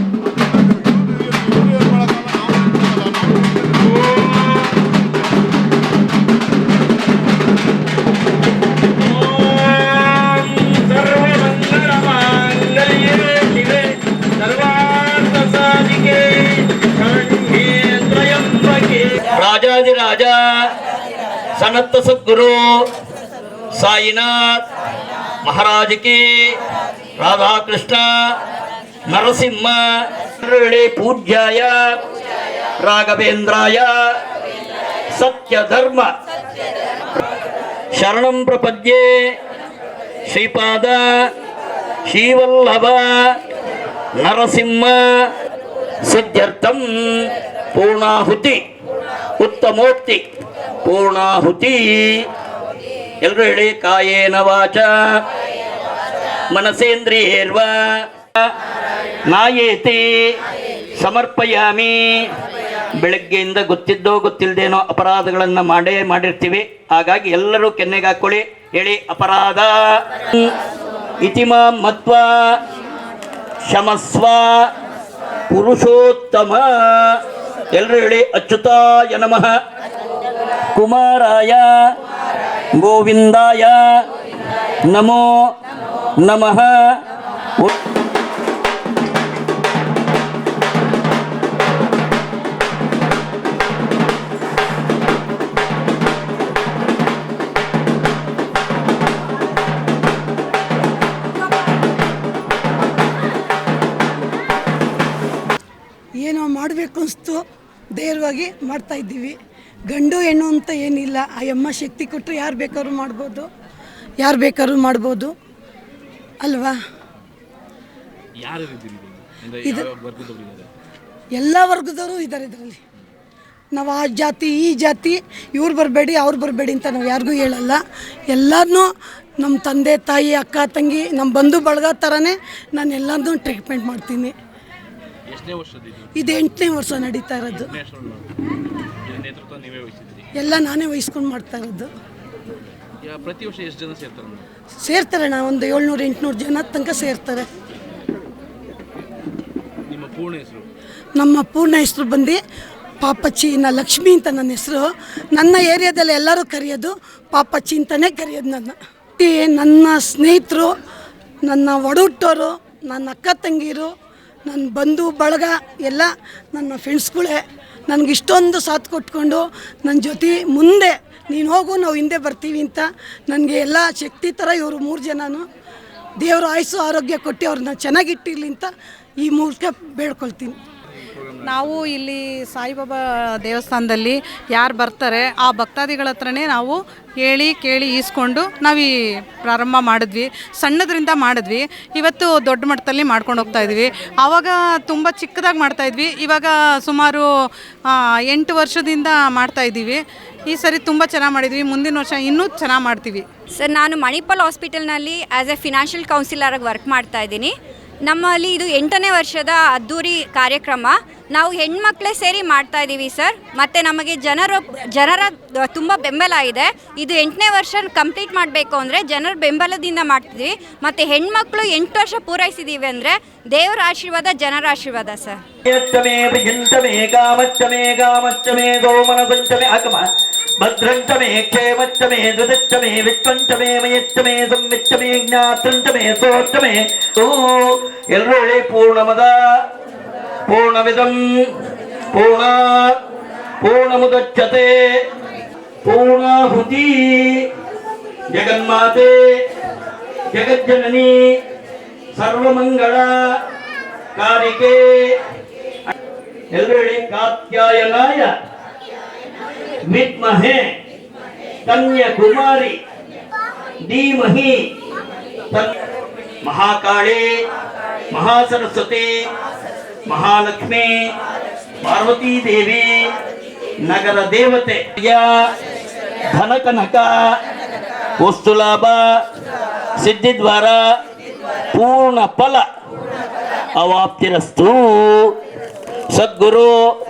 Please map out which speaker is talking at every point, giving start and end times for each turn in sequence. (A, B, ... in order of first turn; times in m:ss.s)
0:03.7-0:04.7 A
0:09.0-0:20.4 A
0:21.6-0:22.8 A
0:23.7-0:24.6 A
0:25.4-0:26.6 A
0:27.2-0:28.1 A
0:29.1-0:32.0 A
0:32.8-0:33.9 A
0:35.1-0:36.1 A
0:37.9-0:39.3 A
0:40.3-0:41.3 A
0:42.1-0:43.4 A
0:44.2-0:45.0 A
0:46.0-0:48.6 A
0:49.4-0:50.2 A
0:50.8-0:52.2 A
0:53.2-0:55.2 A
0:56.5-0:58.5 A
0:59.3-1:00.0 A
1:01.0-1:02.3 A
1:03.0-1:10.5 A
1:11.2-1:12.4 A
1:13.7-1:14.7 A
1:15.5-1:17.2 A
1:17.7-1:19.6 A
1:20.8-1:21.7 A
1:22.8-1:23.8 A
1:24.9-1:25.5 A
1:26.2-1:26.8 A
1:46.2-1:47.4 B
1:48.0-1:49.4 B
1:49.9-1:53.5 B
1:54.2-1:55.3 B
1:56.4-1:56.8 B
1:58.4-2:00.7 C
1:59.6-1:59.9 B
2:01.4-2:02.8 B
2:03.7-2:14.3 B
2:15.3-2:16.3 C
2:16.1-2:17.7 B
2:17.5-2:18.3 C
2:19.0-2:20.3 C
2:20.4-2:21.9 B
2:23.0-2:24.5 C
2:24.8-2:27.5 B
2:29.9-2:30.7 C
2:31.2-2:32.4 B
2:33.0-2:40.7 B
2:41.4-2:43.9 B
2:44.5-2:55.4 B
2:56.2-3:00.6 B
3:01.0-3:01.9 C
3:01.4-3:17.3 D
3:18.3-3:23.2 D
3:23.5-3:27.5 E
3:28.1-3:45.4 E
3:45.6-3:50.1 A
3:50.6-3:59.4 A
4:00.5-4:01.2 A
4:02.1-4:03.0 A
4:03.6-4:05.0 A
4:05.8-4:07.5 A
4:08.3-4:09.2 A
4:10.3-4:11.2 A
4:12.2-4:13.2 A
4:14.2-4:15.2 A
4:16.5-4:18.3 A
4:19.9-4:20.7 A
4:21.7-4:22.8 A
4:23.8-4:24.6 A
4:26.4-4:27.3 A
4:28.1-4:29.1 A
4:30.1-4:31.0 A
4:31.8-4:32.9 A
4:33.8-4:35.3 A
4:36.3-4:37.1 A
4:38.2-4:39.0 A
4:40.0-4:40.8 A
4:41.7-4:42.6 A
4:43.8-4:45.3 A
4:46.1-4:46.8 A